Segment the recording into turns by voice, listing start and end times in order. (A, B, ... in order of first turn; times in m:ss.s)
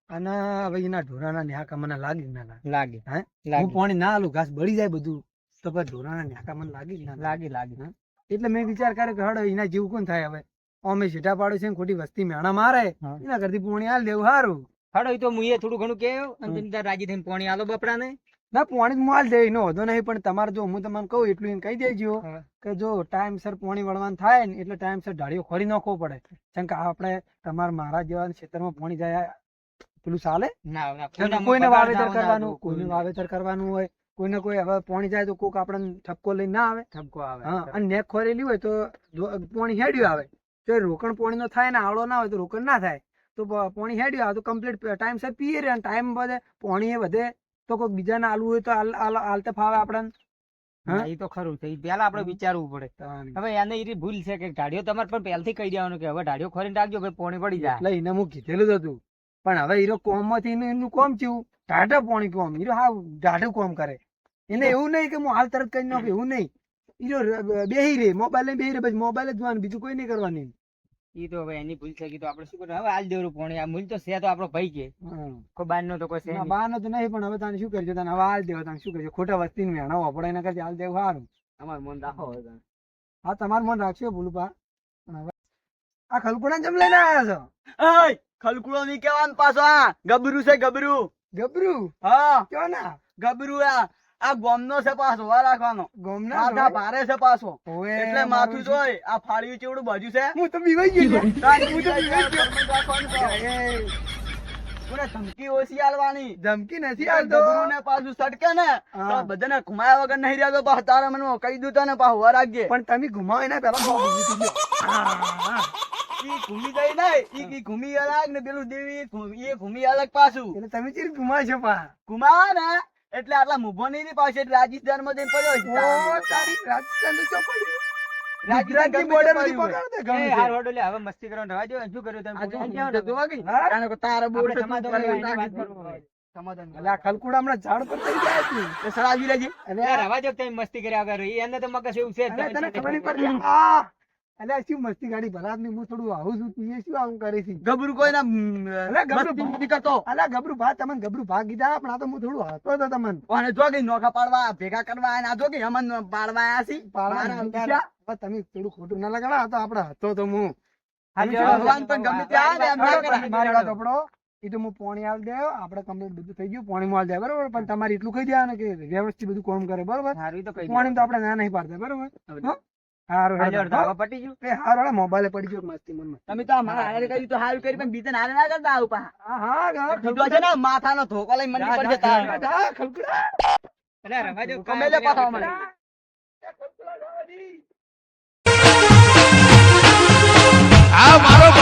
0:00.1-0:14.6 A
0:02.6-0:03.8 B
0:07.2-0:07.8 B
0:14.9-0:18.2 B
0:18.5-0:29.4 A
0:30.0-0:30.5 A
0:30.7-0:33.0 B
0:31.2-0:36.9 A
0:36.9-0:37.8 B
0:37.4-0:50.1 A
0:50.9-0:57.8 B
0:53.0-0:53.4 A
0:57.6-1:06.5 A
1:07.0-1:10.5 A
1:11.2-1:14.9 B
1:15.0-1:15.4 A
1:15.6-1:16.5 B
1:16.3-1:21.3 A
1:21.6-1:22.6 C
1:23.3-1:24.5 A
1:26.1-1:27.5 A
1:27.8-1:31.1 C
1:31.4-1:31.9 A
1:32.0-1:32.5 C
1:32.5-1:32.9 A
1:33.2-1:40.4 C
1:36.0-1:36.8 A
1:37.7-1:38.8 A
1:40.4-1:42.5 A
1:41.4-1:43.4 C
1:43.1-1:43.9 A
1:44.9-1:46.4 C
1:46.4-1:47.7 A
1:47.0-1:52.7 C
1:49.0-1:49.3 A
1:52.7-1:55.7 A
1:56.2-2:00.6 C
2:00.6-2:01.9 A
2:02.1-2:06.5 C
2:05.6-2:07.8 A
2:08.5-2:09.8 C
2:08.5-2:10.5 A
2:10.1-2:13.2 B
2:12.4-2:17.1 C
2:13.4-2:13.8 A
2:14.3-2:16.0 B
2:14.8-2:15.5 A
2:16.7-2:18.8 A
2:18.8-2:19.5 C
2:19.7-2:20.1 A
2:19.8-2:23.4 B
2:22.3-2:23.9 A
2:24.4-2:27.6 A
2:27.6-2:30.0 C
2:28.9-2:33.2 A
2:33.3-2:37.8 C
2:36.8-2:40.6 A
2:41.2-2:43.8 B
2:41.2-2:52.6 A
2:41.3-2:43.3 C
2:50.1-2:51.1 B
2:53.1-2:56.5 A
2:53.4-2:54.4 B
2:56.3-2:59.1 C
2:56.8-2:57.1 B
2:59.2-3:00.5 A
2:59.9-3:02.4 C
3:01.5-3:02.3 B
3:01.7-3:03.4 A
3:04.0-3:05.6 B
3:04.2-3:04.6 A
3:04.7-3:05.5 C
3:05.2-3:05.7 A
3:06.4-3:07.6 A